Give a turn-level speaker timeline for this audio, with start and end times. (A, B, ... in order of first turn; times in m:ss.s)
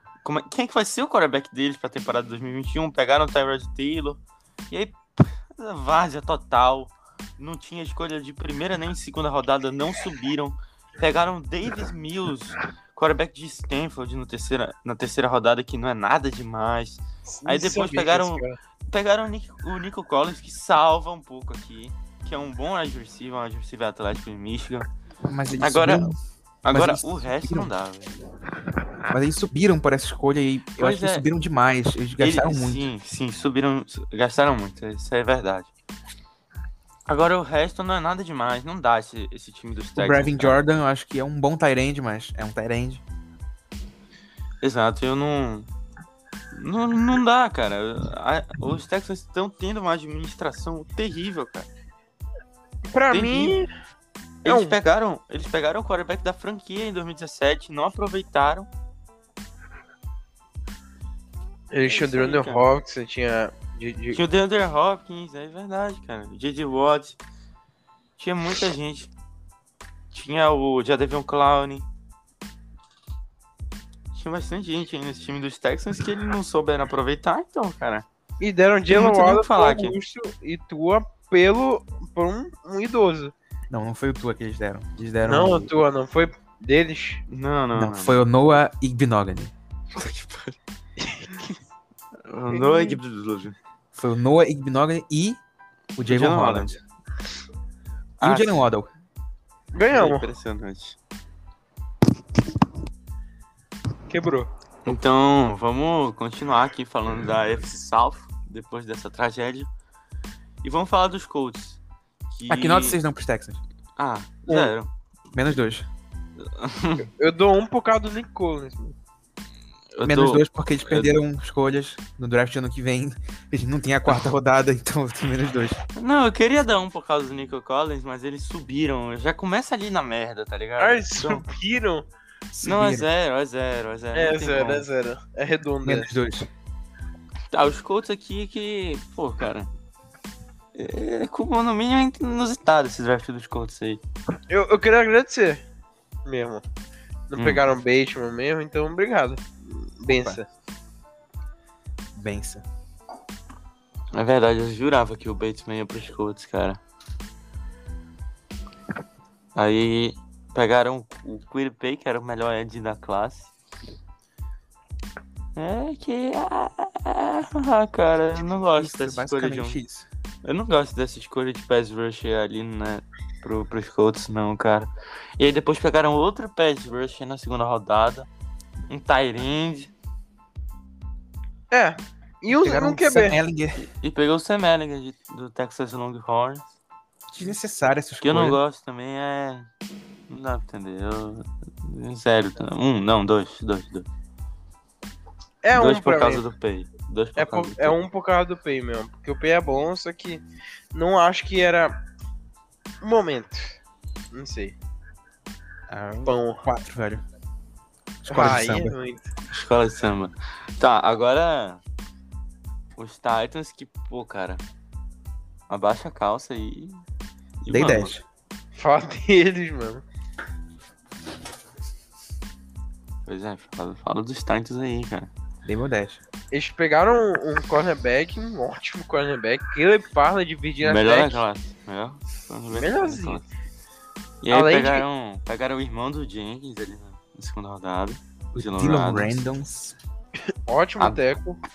0:00.2-0:24.9 A
0:17.3-0:18.6 B
0:25.3-0:26.2 C
0:25.6-0:26.1 A
0:26.6-0:28.1 A
0:26.7-0:27.7 C
0:29.1-0:32.9 C
0:30.8-0:31.2 A
0:32.2-0:35.7 A
0:37.1-0:40.6 A
0:40.0-0:43.0 C
0:44.6-0:45.7 A
0:46.5-0:51.7 A
0:52.9-0:53.7 B
0:53.1-0:53.6 A
0:54.4-0:58.7 A
0:54.4-0:54.7 B
1:01.7-1:04.2 B
1:01.8-1:02.6 A
1:04.1-1:07.2 A
1:08.2-1:09.1 A
1:10.1-1:11.8 A
1:14.1-1:18.0 A
1:18.4-1:23.3 B
1:18.9-1:20.0 A
1:23.7-1:25.7 C
1:25.2-1:27.2 B
1:27.3-1:28.2 A
1:27.7-1:29.5 C
1:29.9-1:30.6 A
1:31.0-1:31.6 B
1:32.3-1:33.6 A
1:32.5-1:33.0 B
1:33.9-1:35.4 C
1:36.0-1:36.8 C
1:36.1-1:36.8 A
1:38.2-1:38.6 A
1:38.2-1:38.9 C
1:39.7-1:40.3 B
1:39.8-1:41.0 A
1:44.1-1:44.5 B
1:44.8-1:49.7 A
1:50.6-1:51.8 A
1:52.3-1:53.0 A
1:52.5-1:53.6 C
1:54.0-1:54.9 A
1:54.5-1:54.7 B
1:55.3-1:55.9 C
1:56.4-1:57.1 A
1:57.0-1:58.9 B
1:59.9-2:01.2 A
2:00.0-2:05.8 C
2:06.0-2:11.4 A
2:10.8-2:12.0 B
2:12.5-2:13.0 C
2:12.6-2:14.9 A
2:14.1-2:16.1 B
2:15.8-2:16.5 C
2:17.5-2:19.7 A
2:20.7-2:24.0 A
2:24.5-2:25.6 B
2:26.2-2:26.6 B
2:27.3-2:30.4 B
2:27.4-2:27.6 A
2:30.1-2:30.4 C
2:32.1-2:32.6 C
2:34.1-2:36.8 A
2:39.5-2:43.5 A
2:45.6-2:49.8 A
2:48.8-2:50.1 C
2:50.4-2:58.3 A
2:58.9-2:59.9 A
3:01.7-3:03.4 B
3:02.5-3:03.9 C
3:04.0-3:06.7 A
3:07.3-3:08.6 C
3:08.2-3:09.7 A
3:10.3-3:14.1 A
3:15.6-3:16.4 B
3:15.7-3:18.0 A
3:17.4-3:20.4 B
3:20.9-3:22.0 B
3:23.0-3:23.8 B
3:24.3-3:24.7 B
3:25.9-3:27.2 C
3:26.2-3:26.6 B
3:28.2-3:28.9 C
3:28.3-3:29.3 B
3:29.5-3:31.8 A
3:33.0-3:34.6 A
3:35.7-3:37.0 A
3:37.6-3:38.1 A
3:37.7-3:38.2 C
3:38.7-3:40.0 B
3:43.2-3:45.3 A
3:45.6-3:46.2 C
3:46.5-3:51.4 B
3:50.8-3:53.4 A
3:52.7-3:53.4 B
3:54.4-3:59.4 A
3:54.5-3:55.0 B
3:58.5-4:00.0 C
4:00.7-4:01.6 B